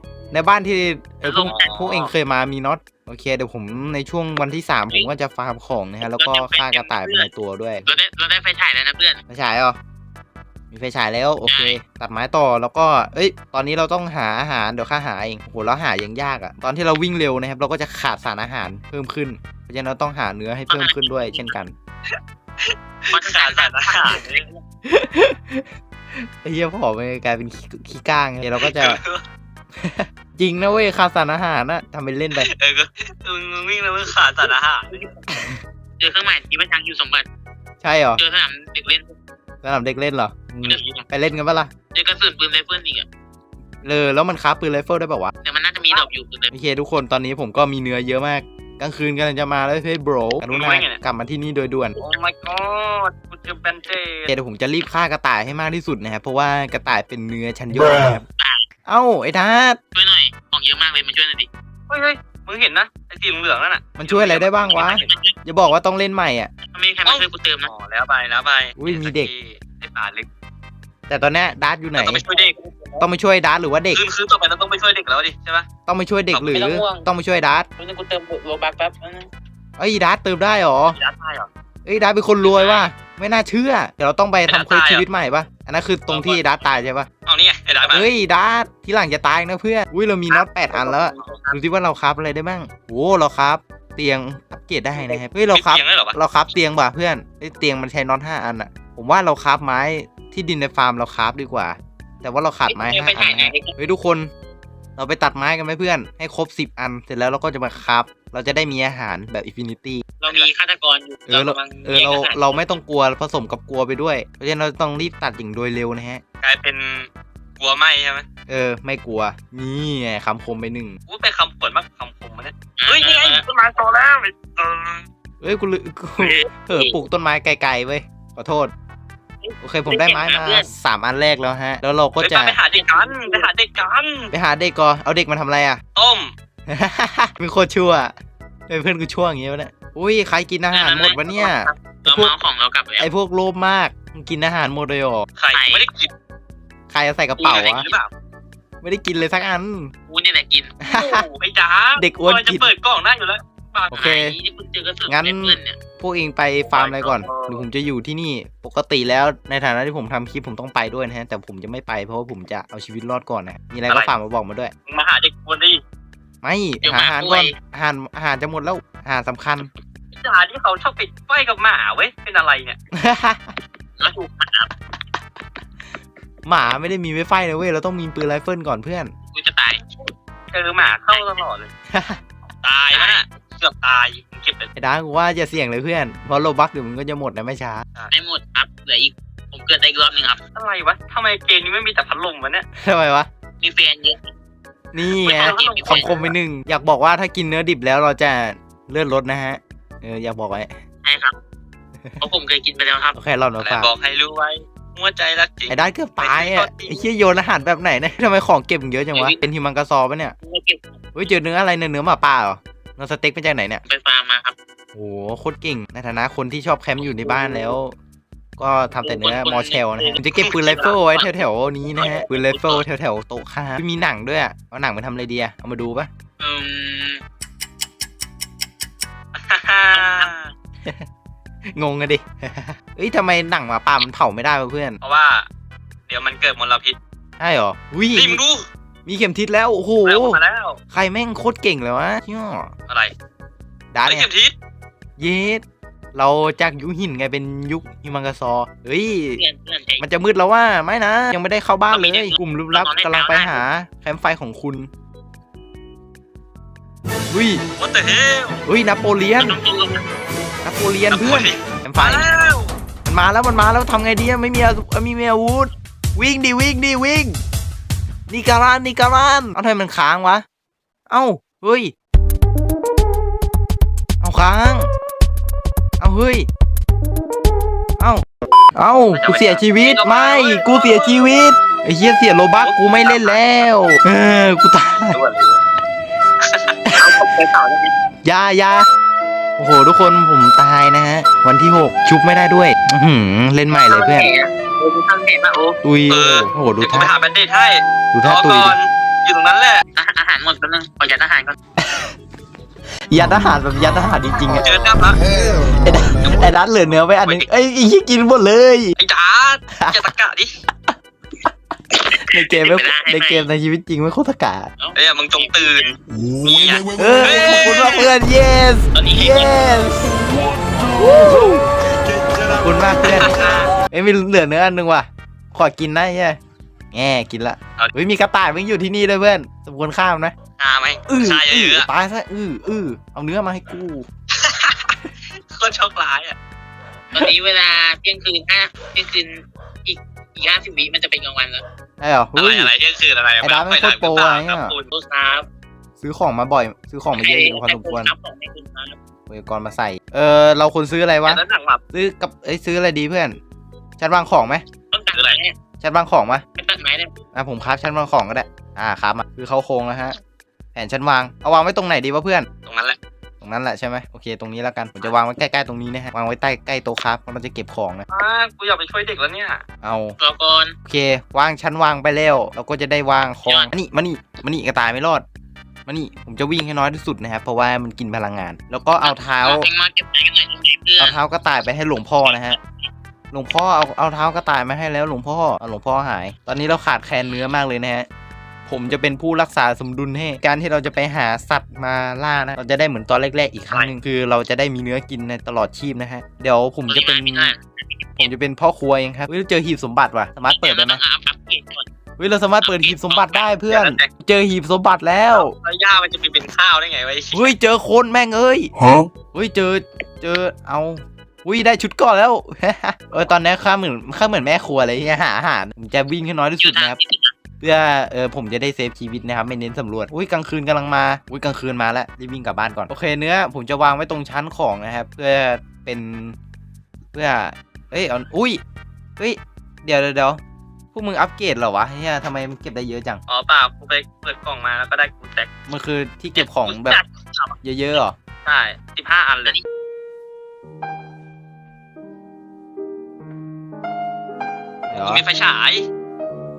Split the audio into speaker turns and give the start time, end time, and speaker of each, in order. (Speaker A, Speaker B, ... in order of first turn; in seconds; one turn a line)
Speaker A: 0.3-7.8
Speaker B: 1.2-2.1
Speaker C: 1.4-2.0
Speaker B: 6.0-7.3
Speaker B: 7.8-9.2
Speaker A: 9.3-9.8
Speaker A: 10.7-21.7
Speaker B: 11.5-11.8
Speaker B: 20.7-21.5
Speaker C: 22.1-24.4
Speaker B: 23.1-24.6
Speaker A: 24.8-29.0
Speaker C: 28.6-29.2
Speaker A: 29.8-32.5
Speaker C: 32.3-35.1
Speaker A: 35.3-35.6
Speaker B: 36.0-37.2
Speaker A: 37.8-38.2
Speaker B: 38.2-39.1
Speaker A: 39.6-41.7
Speaker C: 40.7-41.0
Speaker B: 41.9-43.1
Speaker A: 43.8-45.3
Speaker B: 45.4-46.5
Speaker A: 46.5-52.0
Speaker C: 50.5-51.0
Speaker C: 52.0-54.3
Speaker A: 54.3-58.2
Speaker B: 58.4-58.6
Speaker A: 58.9-59.8
Speaker B: 59.9-61.5
Speaker C: 61.9-65.2
Speaker A: 64.0-66.5
Speaker B: 64.7-65.3
Speaker B: 66.7-67.7
Speaker C: 67.1-70.3
Speaker A: 68.8-69.3
Speaker A: 71.1-72.2
Speaker C: 71.9-72.5
Speaker B: 72.3-73.1
Speaker A: 73.0-74.0
Speaker C: 73.9-75.7
Speaker A: 75.8-77.7
Speaker B: 76.3-77.1
Speaker B: 77.8-79.3
Speaker A: 79.8-81.0
Speaker C: 80.9-81.5
Speaker A: 81.8-87.1
Speaker C: 82.4-82.9
Speaker C: 84.5-85.0
Speaker C: 86.1-86.4
Speaker C: 87.2-88.1
Speaker A: 87.9-104.3
Speaker B: 90.5-91.6
Speaker C: 91.0-91.4
Speaker B: 94.9-95.2
Speaker C: 95.5-96.2
Speaker B: 102.7-103.7
Speaker A: 105.0-110.1
Speaker B: 110.2-112.8
Speaker C: 110.2-110.5
Speaker A: 111.3-116.2
Speaker C: 116.4-118.2
Speaker A: 118.5-121.0
Speaker C: 121.1-125.0
Speaker B: 122.8-123.4
Speaker A: 125.4-128.7
Speaker B: 126.2-127.0
Speaker B: 129.4-130.7
Speaker A: 129.6-132.6
Speaker C: 132.2-134.3
Speaker B: 132.7-133.5
Speaker A: 134.3-135.8
Speaker C: 135.9-136.3
Speaker A: 136.7-138.1
Speaker A: 138.7-142.3
Speaker B: 140.7-143.1
Speaker A: 143.0-145.3
Speaker C: 145.4-146.1
Speaker B: 145.5-145.9
Speaker A: 146.9-147.8
Speaker B: 147.4-148.0
Speaker C: 147.4-148.1
Speaker A: 148.8-149.9
Speaker B: 150.1-150.8
Speaker A: 150.8-151.3
Speaker C: 150.9-154.0
Speaker A: 152.0-152.7
Speaker A: 153.9-154.4
Speaker B: 153.9-155.8
Speaker A: 155.1-164.7
Speaker C: 156.7-157.6
Speaker C: 163.9-164.1
Speaker C: 164.9-165.8
Speaker A: 166.4-169.7
Speaker B: 166.8-167.6
Speaker C: 170.2-172.8
Speaker A: 172.9-173.5
Speaker B: 174.0-174.7
Speaker A: 176.4-179.1
Speaker B: 179.3-179.8
Speaker C: 180.5-181.7
Speaker A: 181.9-182.2
Speaker C: 182.6-184.7
Speaker B: 182.9-183.2
Speaker A: 184.8-187.8
Speaker B: 188.1-190.4
Speaker C: 190.6-192.7
Speaker A: 192.8-193.3
Speaker B: 193.6-194.3
Speaker A: 194.9-200.7
Speaker B: 195.0-196.3
Speaker C: 195.2-196.2
Speaker B: 201.0-201.3
Speaker B: 202.2-203.2
Speaker A: 203.1-203.9
Speaker C: 203.6-207.1
Speaker A: 205.7-210.3
Speaker B: 210.4-211.1
Speaker A: 211.1-213.8
Speaker B: 213.8-214.6
Speaker A: 214.9-217.9
Speaker B: 217.0-217.5
Speaker A: 218.6-226.1
Speaker B: 219.0-221.3
Speaker C: 220.3-220.7
Speaker B: 222.0-222.4
Speaker C: 222.5-222.8
Speaker B: 226.4-227.2
Speaker C: 229.3-230.4
Speaker B: 229.9-230.3
Speaker A: 231.7-235.0
Speaker C: 235.0-235.4
Speaker C: 236.1-236.9
Speaker A: 237.4-238.4
Speaker C: 238.1-238.7
Speaker A: 239.1-240.4
Speaker C: 240.0-240.8
Speaker A: 240.9-242.7
Speaker A: 243.9-244.3
Speaker C: 244.1-244.5
Speaker A: 245.2-245.6
Speaker A: 246.1-249.4
Speaker B: 249.3-250.1
Speaker A: 250.0-254.9
Speaker B: 251.9-253.6
Speaker A: 257.3-257.6
Speaker C: 257.8-258.6
Speaker A: 258.7-259.6
Speaker B: 259.4-260.1
Speaker A: 260.6-262.2
Speaker C: 261.1-262.7
Speaker A: 263.1-267.4
Speaker A: 268.3-270.4
Speaker A: 271.1-271.9
Speaker A: 274.2-274.9
Speaker A: 276.0-276.5
Speaker A: 278.0-278.2
Speaker A: 278.7-285.2
Speaker C: 279.1-281.3
Speaker C: 282.6-283.4
Speaker C: 285.1-285.6
Speaker C: 286.4-286.8
Speaker A: 286.9-287.1
Speaker B: 287.0-287.9
Speaker A: 288.2-288.9
Speaker A: 289.6-294.3
Speaker B: 293.9-295.8
Speaker A: 295.8-297.1
Speaker C: 296.1-299.8
Speaker A: 298.1-298.7
Speaker B: 299.9-301.6
Speaker A: 301.8-302.1
Speaker A: 303.1-304.7
Speaker C: 304.6-305.2
Speaker A: 305.6-308.9
Speaker C: 307.1-307.5
Speaker C: 309.0-310.5
Speaker A: 309.7-310.0
Speaker B: 312.1-313.5
Speaker A: 312.2-314.7
Speaker B: 314.8-315.9
Speaker C: 314.9-318.1
Speaker A: 317.0-321.7
Speaker B: 318.9-319.5
Speaker A: 322.5-326.4
Speaker C: 323.0-323.7
Speaker A: 326.9-330.3
Speaker C: 330.6-331.9
Speaker A: 331.1-334.1
Speaker C: 334.3-335.0
Speaker C: 335.5-336.4
Speaker B: 337.1-341.6
Speaker A: 342.0-342.7
Speaker C: 342.3-344.9
Speaker A: 343.4-344.7
Speaker B: 344.9-345.5
Speaker A: 346.0-348.1
Speaker B: 347.1-349.0
Speaker A: 349.3-351.4
Speaker C: 351.2-351.8
Speaker A: 351.9-353.4
Speaker A: 354.0-354.6
Speaker B: 354.9-355.6
Speaker C: 355.1-355.4
Speaker A: 355.8-356.4
Speaker B: 356.6-357.1
Speaker A: 357.3-360.2
Speaker A: 360.7-362.5
Speaker C: 362.7-363.0
Speaker A: 363.4-368.1
Speaker C: 368.1-369.6
Speaker A: 369.8-370.2
Speaker B: 370.2-370.7
Speaker A: 370.8-375.2
Speaker B: 373.4-373.7
Speaker A: 375.9-379.7
Speaker B: 379.0-381.2
Speaker A: 381.0-382.6
Speaker A: 383.3-388.1
Speaker A: 388.7-397.5
Speaker B: 396.9-398.3
Speaker A: 398.2-401.0
Speaker B: 400.4-401.9
Speaker A: 402.2-405.5
Speaker B: 402.6-403.5
Speaker C: 402.7-404.1
Speaker C: 405.3-407.5
Speaker A: 407.3-408.7
Speaker A: 409.3-417.0
Speaker B: 416.6-417.3
Speaker A: 417.6-426.4
Speaker A: 427.1-428.6
Speaker A: 429.2-430.4
Speaker A: 430.9-433.2
Speaker C: 433.3-435.5
Speaker A: 435.7-437.0
Speaker B: 436.4-437.5
Speaker A: 437.6-438.1
Speaker C: 438.4-439.6
Speaker A: 444.9-445.2
Speaker C: 445.0-445.9